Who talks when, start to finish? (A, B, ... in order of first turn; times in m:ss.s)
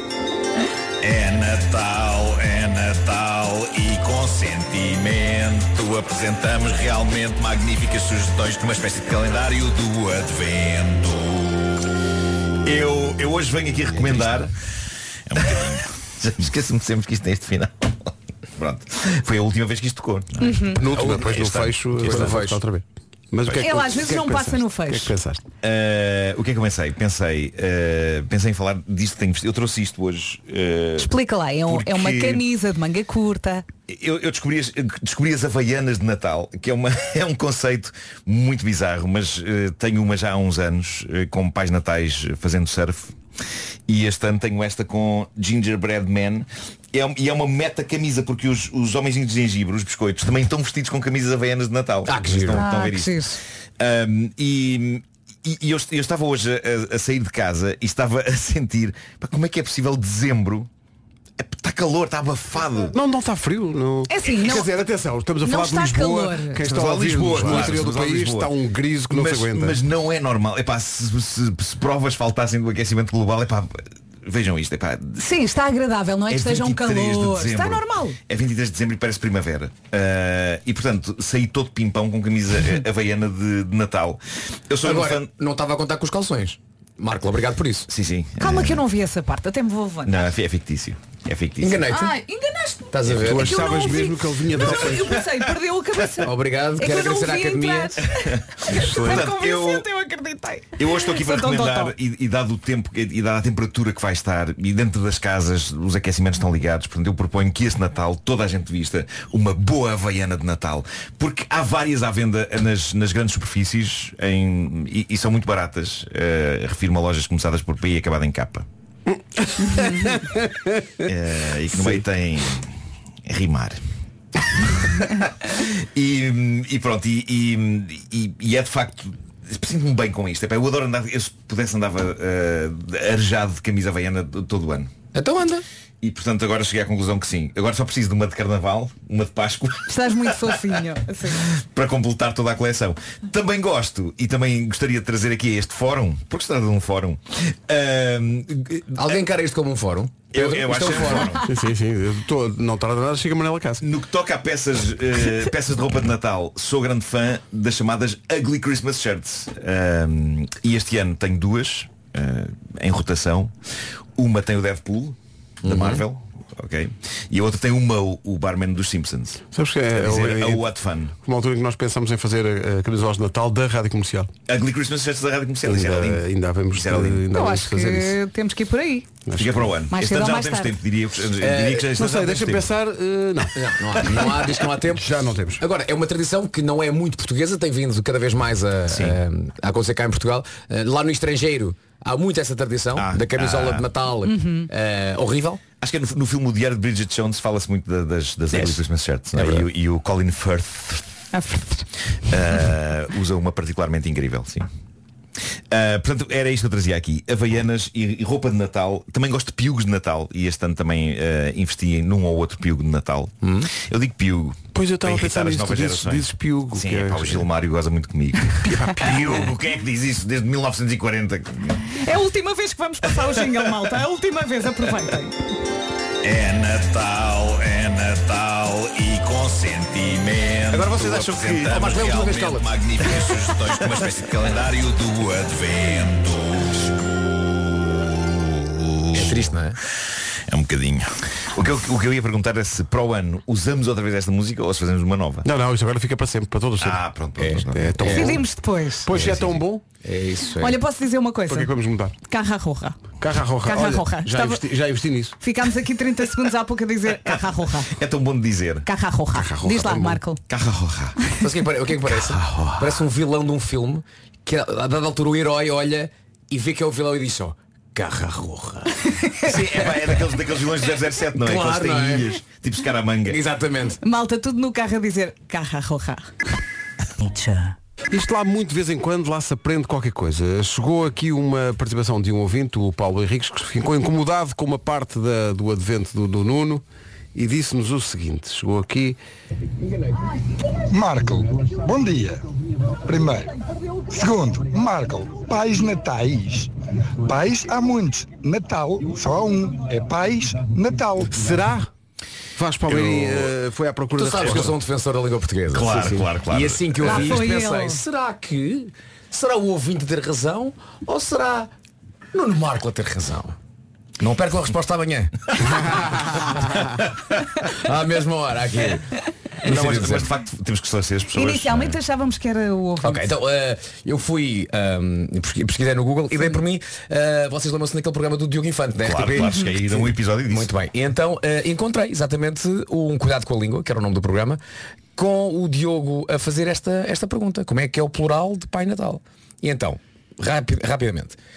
0:01.0-0:11.8 A
0:12.6-0:14.5 A
0:15.3-0:22.4 A
0:20.4-0:20.8 B
0:20.8-0:25.4 C
0:22.0-0:22.6 D
0:23.6-0:25.1 B
0:25.6-0:31.2 A
0:31.0-0:33.6 B
0:31.7-0:32.4 A
0:33.9-0:43.2 A
0:43.9-1:00.7 A
0:52.1-0:52.6 D
0:52.6-0:53.4 B
1:01.4-1:03.0 A
1:02.9-1:09.8 C
1:04.1-1:04.7 B
1:05.4-1:06.7 B
1:06.6-1:08.5 A
1:09.1-1:15.2 A
1:15.2-1:18.2 B
1:16.3-1:25.3 A
1:24.8-1:27.9 D
1:27.9-1:28.8 A
1:28.4-1:30.2 B
1:30.0-1:31.9 A
1:31.6-1:32.2 D
1:31.9-1:41.9 B
1:32.9-1:33.9 D
1:33.2-1:35.2 C
1:36.2-1:38.0 D
1:38.2-1:39.9 A
1:40.8-1:58.7 A
1:59.4-2:01.1 C
1:59.8-2:00.1 B
2:01.0-2:02.8 A
2:03.3-2:03.8 A
2:04.6-2:14.9 A
2:15.1-2:15.6 D
2:16.0-2:20.8 A
2:19.9-2:21.4 B
2:21.3-2:29.1 A
2:28.9-2:31.4 D
2:30.3-2:31.4 A
2:31.5-2:33.8 C
2:33.8-2:43.5 A
2:44.2-2:51.1 A
2:45.6-2:46.0 D
2:49.5-2:50.7 C
2:51.2-2:54.3 C
2:54.5-2:57.2 A
2:55.7-2:58.2 C
2:57.3-2:59.1 B
2:59.3-2:59.7 C
2:59.4-3:02.7 A
2:59.9-3:00.8 B
3:01.4-3:01.9 D
3:02.0-3:05.6 C
3:03.6-3:15.6 D
3:08.9-3:09.2 A
3:13.0-3:13.9 A
3:14.2-3:14.7 B
3:15.8-3:21.1 A
3:18.5-3:18.8 D
3:19.3-3:19.7 D
3:21.3-3:21.8 B
3:22.3-3:24.7 A
3:25.7-3:42.0 A
3:33.4-3:33.7 D
3:34.7-3:37.5 C
3:38.6-3:39.4 C
3:41.9-3:45.4 B
3:43.1-3:43.7 A
3:46.2-3:57.1 A
3:50.7-3:53.5 D
3:57.8-3:59.5 A
3:59.1-3:59.8 D
4:00.5-4:05.5 A
4:05.4-4:07.0 C
4:06.8-4:08.0 A
4:07.4-4:08.4 D
4:07.7-4:08.5 C
4:08.1-4:09.1 B
4:09.0-4:09.8 C
4:09.1-4:09.5 D
4:10.0-4:10.8 D
4:10.6-4:11.7 B
4:11.5-4:12.2 C
4:12.3-4:13.0 B
4:13.2-4:15.4 C
4:13.6-4:14.6 B
4:15.4-4:18.0 B
4:17.3-4:18.9 A
4:18.9-4:20.4 B
4:19.3-4:20.2 C
4:20.5-4:21.2 A
4:21.4-4:29.1 D
4:29.1-4:29.5 B
4:29.4-4:33.4 A
4:31.4-4:32.3 D
4:33.3-4:34.0 D
4:34.0-4:36.3 B
4:38.1-4:46.8 C
4:47.4-4:49.2 C
4:50.9-4:52.4 E
4:53.0-4:53.5 E
4:54.1-4:56.7 E
4:57.2-5:01.4 E
5:01.3-5:01.9 C
5:02.6-5:04.7 C
5:02.9-5:03.4 A
5:04.2-5:11.7 D
5:04.4-5:04.7 A
5:05.7-5:07.4 A
5:07.0-5:08.0 B
5:12.3-5:13.6 D
5:14.2-5:17.1 D
5:17.6-5:19.1 D
5:19.6-5:20.3 D
5:19.6-5:22.0 A
5:21.3-5:23.3 B
5:23.0-5:34.6 D
5:29.0-5:30.7 A
5:35.2-5:41.4 D